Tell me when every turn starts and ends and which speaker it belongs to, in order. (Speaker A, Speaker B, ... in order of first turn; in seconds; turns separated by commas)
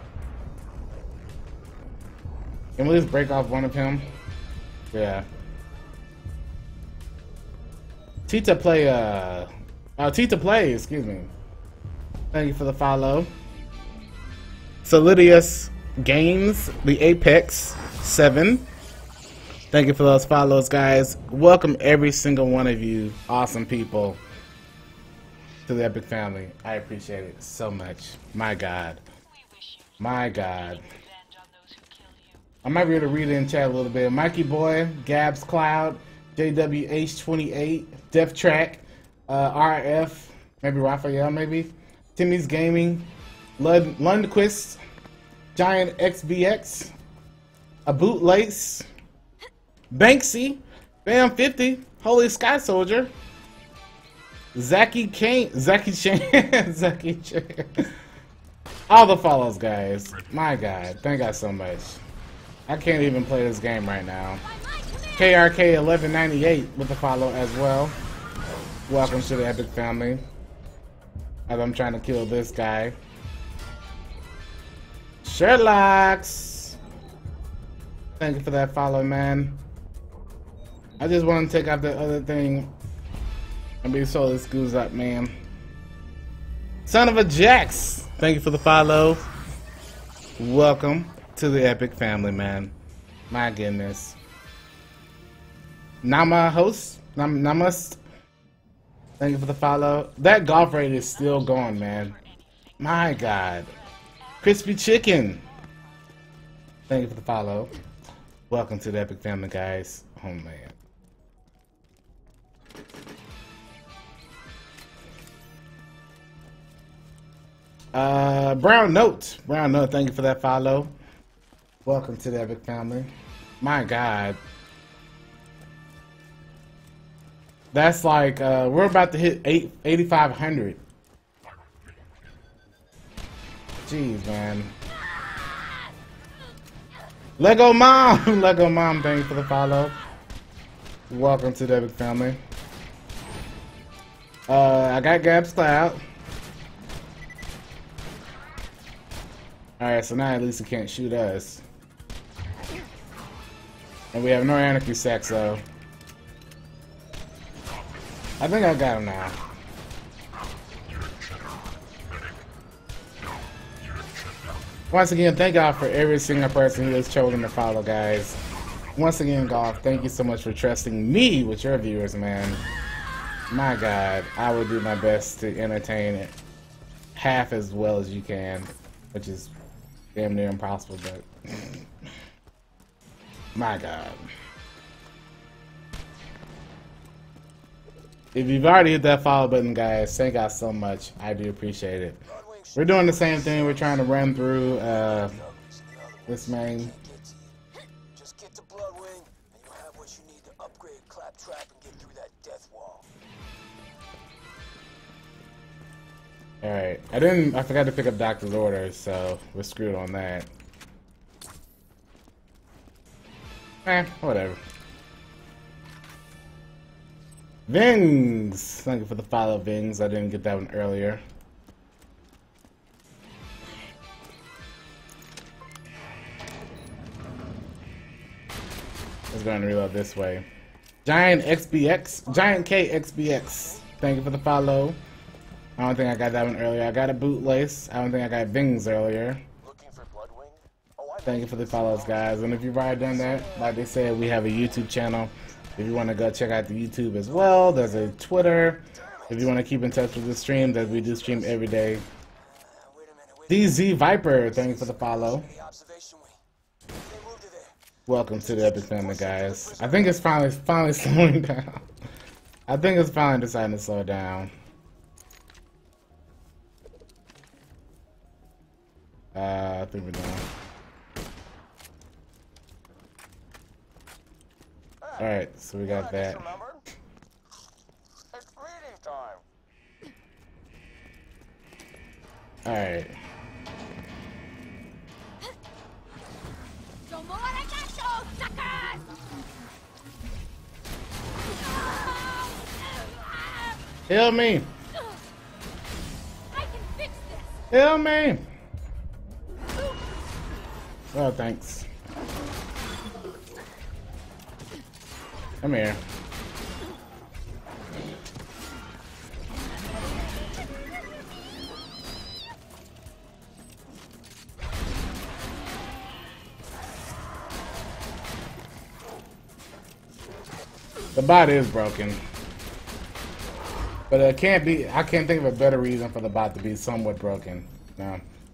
Speaker A: 2.8-4.1, Speaker A: 4.9-5.2, Speaker A: 8.3-11.3, Speaker A: 12.3-13.3, Speaker A: 14.8-18.7, Speaker A: 19.7-24.2, Speaker A: 25.7-29.0, Speaker A: 30.0-30.8, Speaker A: 32.6-44.8, Speaker A: 45.5-46.9, Speaker A: 47.9-48.8, Speaker A: 49.9-53.1, Speaker A: 54.5-57.9, Speaker A: 58.9-62.0, Speaker A: 62.7-64.4, Speaker A: 65.1-68.0, Speaker A: 68.9-70.2, Speaker A: 71.5-72.9, Speaker A: 75.2-76.8, Speaker A: 78.2-79.6, Speaker A: 81.0-82.7, Speaker A: 83.8-85.3, Speaker A: 86.8-89.2, Speaker A: 90.4-92.7, Speaker A: 93.3-94.2, Speaker A: 96.0-98.0, Speaker A: 99.2-102.2, Speaker A: 102.8-103.7, Speaker A: 104.4-105.5, Speaker A: 106.9-107.7, Speaker A: 108.5-110.8, Speaker A: 117.9-120.9, Speaker A: 121.8-124.4, Speaker A: 127.7-130.8, Speaker A: 133.8-134.7, Speaker A: 137.4-140.0, Speaker A: 141.1-142.4, Speaker A: 144.5-146.0, Speaker A: 149.8-151.6, Speaker A: 154.1-155.6, Speaker A: 158.4-159.4, Speaker A: 164.9-168.4, Speaker A: 169.0-172.6, Speaker A: 173.5-176.3, Speaker A: 177.1-179.5, Speaker A: 180.1-181.8, Speaker A: 183.5-184.2, Speaker A: 188.3-192.2, Speaker B: 192.4-193.4, Speaker A: 192.8-195.4, Speaker B: 195.2-197.5, Speaker A: 196.3-196.9, Speaker B: 198.1-203.1, Speaker A: 206.6-210.5, Speaker A: 213.8-214.6, Speaker A: 217.7-221.2, Speaker A: 229.3-230.4, Speaker A: 231.0-235.0, Speaker A: 235.8-239.4, Speaker B: 239.6-241.2, Speaker A: 241.2-252.1, Speaker B: 252.7-253.5, Speaker A: 253.5-255.5, Speaker B: 255.1-256.4, Speaker B: 257.0-257.7, Speaker A: 258.1-261.8, Speaker B: 258.8-259.9, Speaker A: 262.7-264.5, Speaker A: 269.3-270.4, Speaker A: 275.2-276.5, Speaker B: 276.3-276.8, Speaker B: 278.4-279.4, Speaker A: 282.6-283.1, Speaker C: 287.1-289.0, Speaker C: 292.1-292.4, Speaker A: 294.1-294.7, Speaker C: 296.6-297.4, Speaker A: 297.7-298.4, Speaker A: 301.1-301.9, Speaker A: 305.6-306.0, Speaker A: 321.1-322.2, Speaker A: 324.1-328.2